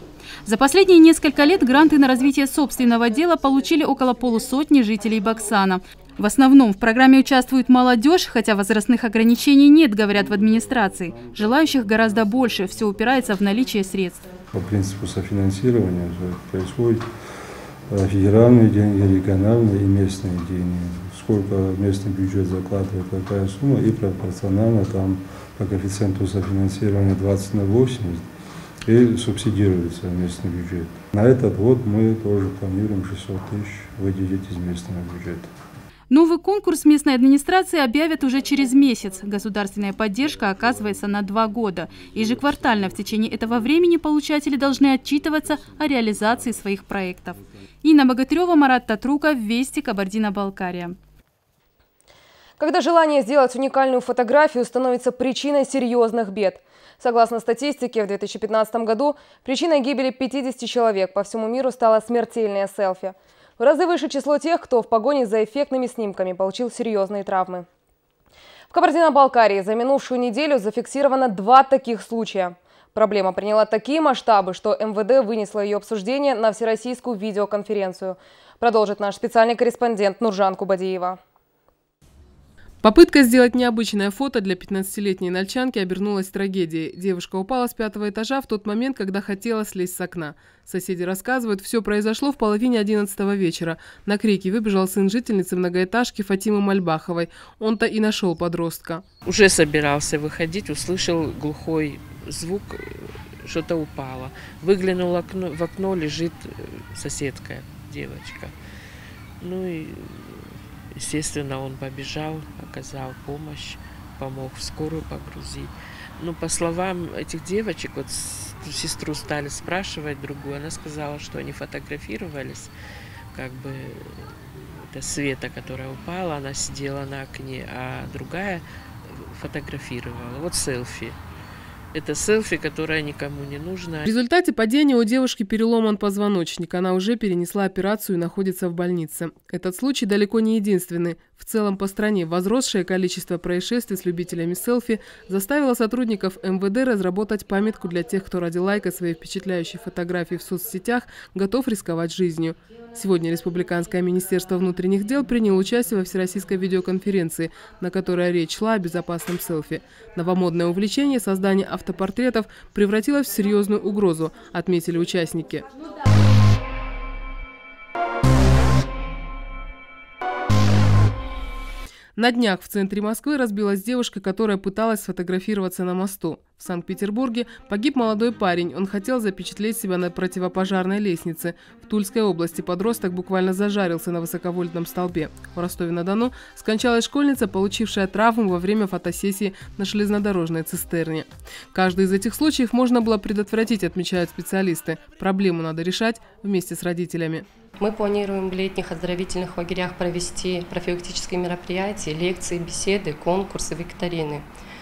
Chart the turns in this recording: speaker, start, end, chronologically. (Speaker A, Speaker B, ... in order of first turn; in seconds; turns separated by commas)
Speaker A: 0.4-14.3, Speaker B: 14.5-17.1, Speaker B: 17.9-28.2, Speaker B: 28.9-35.5, Speaker A: 36.1-51.0, Speaker C: 52.6-67.7, Speaker C: 68.7-81.2, Speaker D: 82.8-99.0, Speaker E: 99.2-108.5, Speaker E: 109.4-122.7, Speaker E: 123.3-131.2, Speaker E: 131.9-134.2, Speaker D: 134.3-165.6, Speaker D: 172.2-197.4, Speaker F: 197.8-204.4